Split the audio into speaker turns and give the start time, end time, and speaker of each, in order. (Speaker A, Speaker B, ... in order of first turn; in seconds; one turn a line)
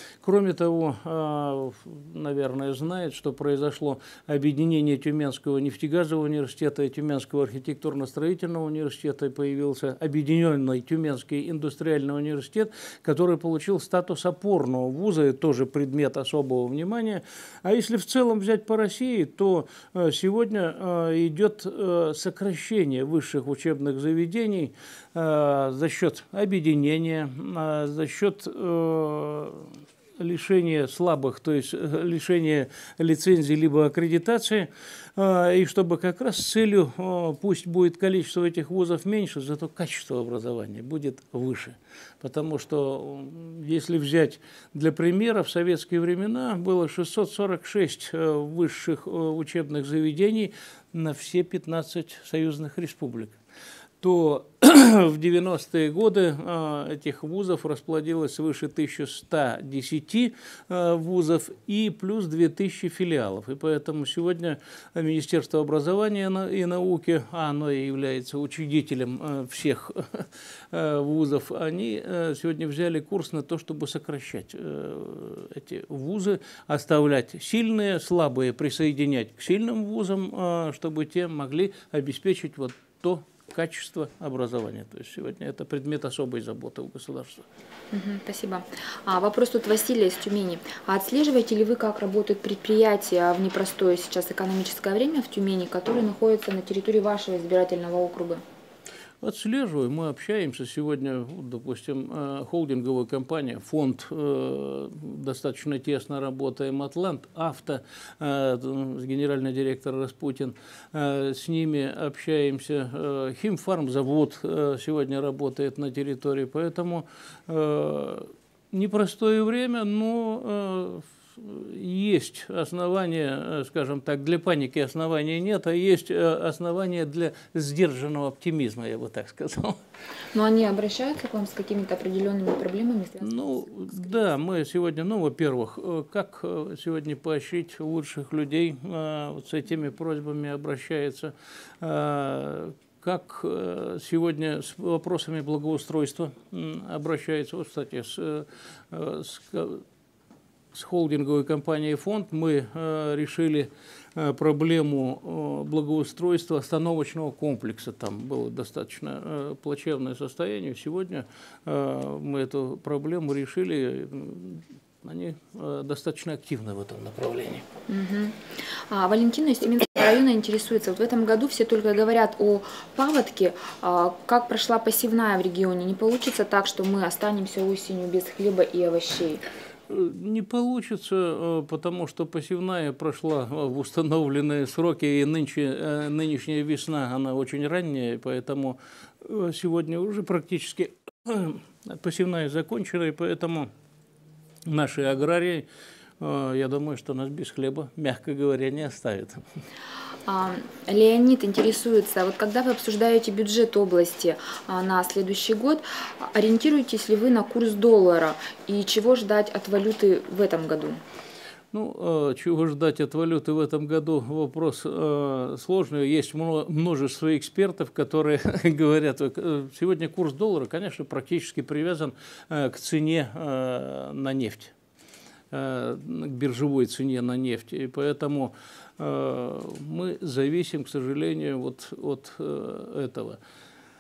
Speaker A: 0.2-53.4
Speaker A: 54.0-87.5
Speaker B: 87.9-98.4
Speaker A: 99.2-129.8
Speaker B: 130.3-134.0
Speaker A: 133.2-149.8
Speaker A: 150.7-167.7
Speaker B: 167.9-179.4
Speaker A: 179.9-193.7
Speaker A: 194.7-195.7
Speaker A: 196.2-199.4
Speaker B: 200.3-211.0
Speaker A: 211.7-224.7
Speaker A: 225.5-233.4